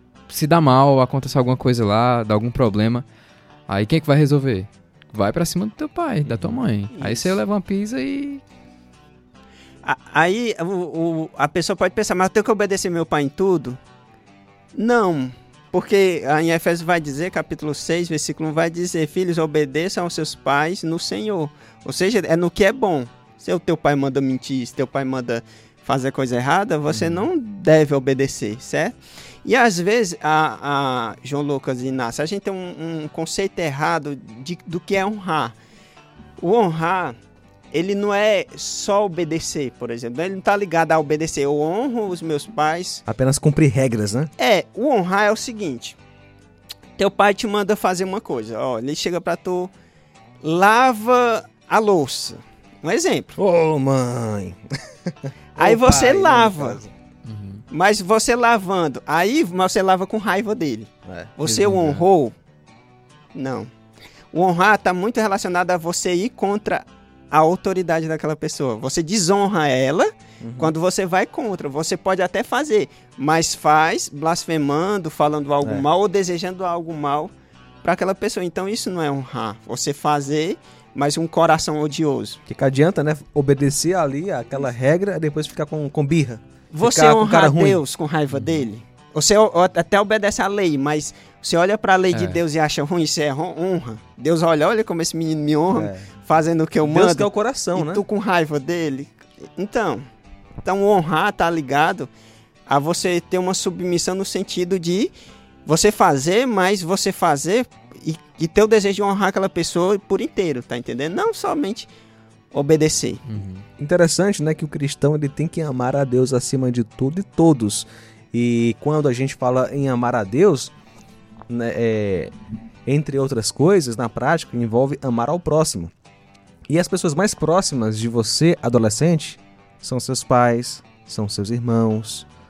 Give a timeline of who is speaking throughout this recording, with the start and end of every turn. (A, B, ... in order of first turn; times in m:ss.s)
0:00.3-0:03.0 A
0:03.7-0:08.4 A
0:06.2-0:06.6 B
0:06.9-0:07.4 C
0:09.8-0:13.8 C
0:14.7-0:35.6 C
0:26.9-0:27.2 A
0:36.4-0:37.2 C
0:37.7-0:43.0 C
0:43.1-0:44.3 B
0:44.4-0:46.0 C
0:47.0-0:49.7 C
0:50.4-0:53.4 C
0:53.4-0:56.9 B
0:55.6-0:56.8 C
0:57.2-0:57.6 A
0:57.7-1:02.3 C
1:01.0-1:02.0 B
1:03.3-1:03.7 C
1:04.3-1:22.4 C
1:10.4-1:10.7 B
1:22.5-1:27.8 B
1:26.7-1:40.0 C
1:28.3-1:28.6 A
1:32.1-1:32.4 A
1:35.7-1:36.1 B
1:36.8-1:38.0 B
1:40.6-1:42.1 C
1:42.7-1:45.1 C
1:45.6-1:51.9 C
1:52.5-1:53.2 C
1:53.2-1:53.6 A
1:53.8-2:00.7 B
2:01.5-2:02.3 B
2:02.8-2:05.9 B
2:06.7-2:12.3 B